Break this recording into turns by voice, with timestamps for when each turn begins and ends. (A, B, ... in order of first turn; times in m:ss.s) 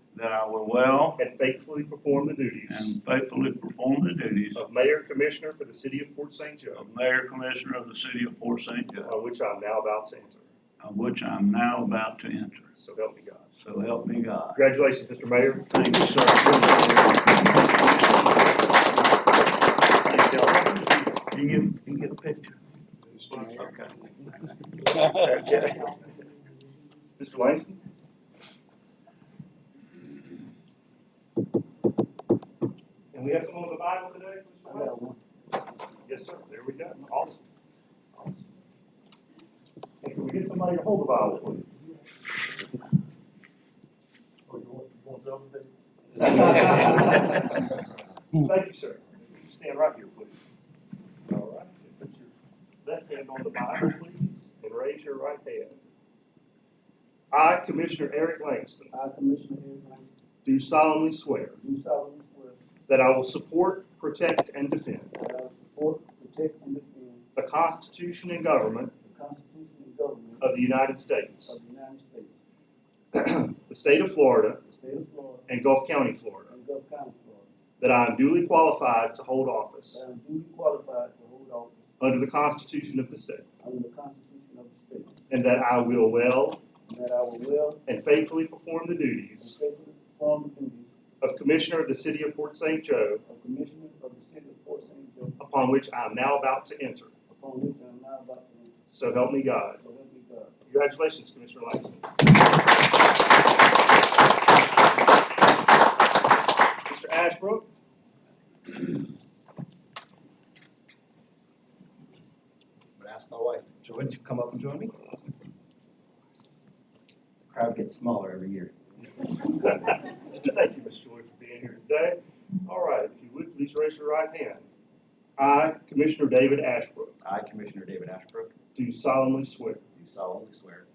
0:00.1-0:01.2 A
0:01.2-0:03.0 B
0:02.7-0:04.6 A
0:04.5-0:06.9 B
0:06.8-0:09.1 A
0:09.0-0:10.5 B
0:10.8-0:12.7 A
0:12.8-0:13.5 B
0:13.6-0:14.6 A
0:14.5-0:15.7 B
0:15.7-0:18.3 A
0:19.9-0:22.6 A
0:23.4-0:23.9 A
0:24.8-0:25.9 A
0:27.2-0:27.8 B
0:33.1-0:35.0 B
0:34.7-0:35.2 C
0:36.0-0:37.4 B
0:38.2-0:38.4 B
0:40.0-0:41.7 B
0:44.5-0:47.8 B
0:48.3-0:50.3 B
0:51.2-0:52.3 B
0:52.8-0:55.8 B
0:57.3-0:58.9 B
0:58.9-1:00.1 C
1:00.4-1:01.6 B
1:01.6-1:02.6 C
1:02.9-1:05.1 B
1:05.2-1:07.2 C
1:07.4-1:08.9 B
1:09.0-1:10.5 C
1:10.4-1:11.6 B
1:11.4-1:12.3 C
1:13.1-1:14.6 B
1:14.7-1:15.4 C
1:15.5-1:16.5 B
1:16.5-1:17.5 C
1:17.8-1:20.0 B
1:19.9-1:21.8 C
1:22.0-1:23.4 B
1:23.6-1:25.2 C
1:25.3-1:26.6 B
1:26.9-1:27.8 C
1:27.9-1:29.6 B
1:29.4-1:30.9 C
1:31.2-1:33.2 B
1:33.3-1:35.3 C
1:35.4-1:37.1 B
1:37.3-1:38.7 C
1:38.9-1:39.8 B
1:39.8-1:40.6 C
1:40.7-1:42.1 B
1:46.9-1:47.7 B
1:53.0-1:55.0 D
1:57.4-1:58.8 D
1:59.2-2:04.6 B
2:05.4-2:07.2 B
2:07.2-2:08.6 D
2:08.8-2:09.8 B
2:09.9-2:10.9 D